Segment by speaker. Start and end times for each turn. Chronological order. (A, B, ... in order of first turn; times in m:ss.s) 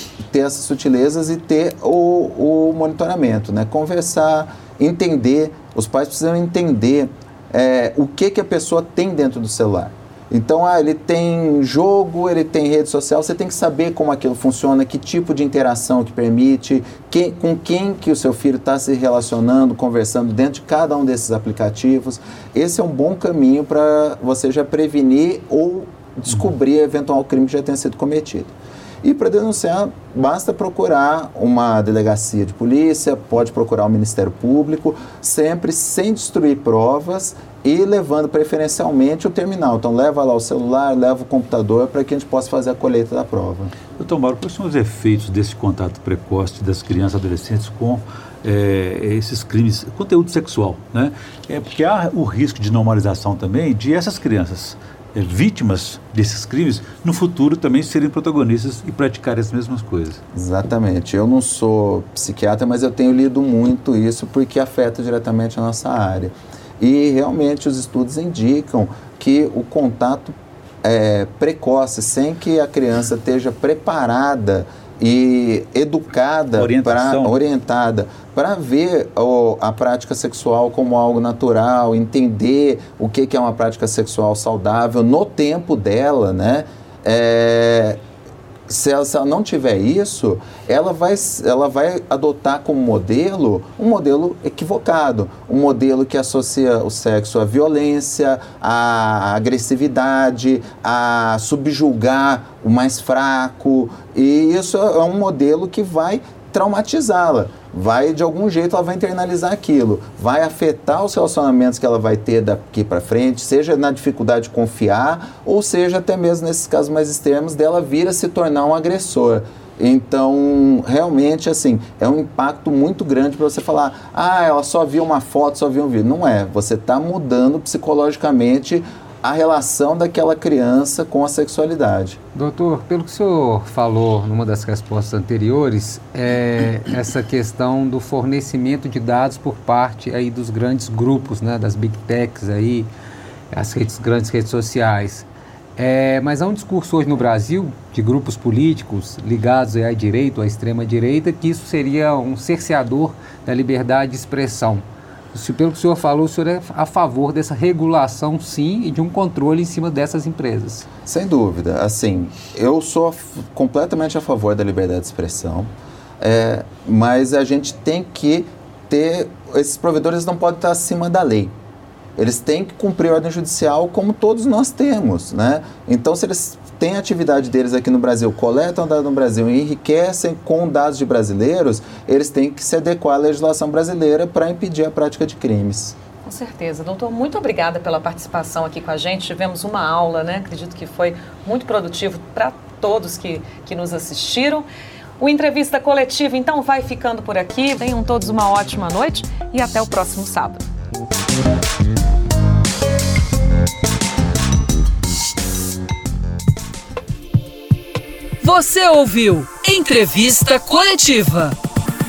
0:00.3-0:43.7 A
0:44.0-1:00.2 B
1:00.3-1:28.0 A
1:16.5-1:17.3 B
1:28.7-2:12.2 A
2:12.3-2:22.9 C
2:23.5-2:25.2 C
2:25.8-2:40.9 C
2:41.0-2:45.7 A
2:46.2-2:51.5 A
2:52.2-3:06.0 A
3:06.2-3:14.6 D
3:15.2-3:20.6 D
3:28.4-3:31.6 E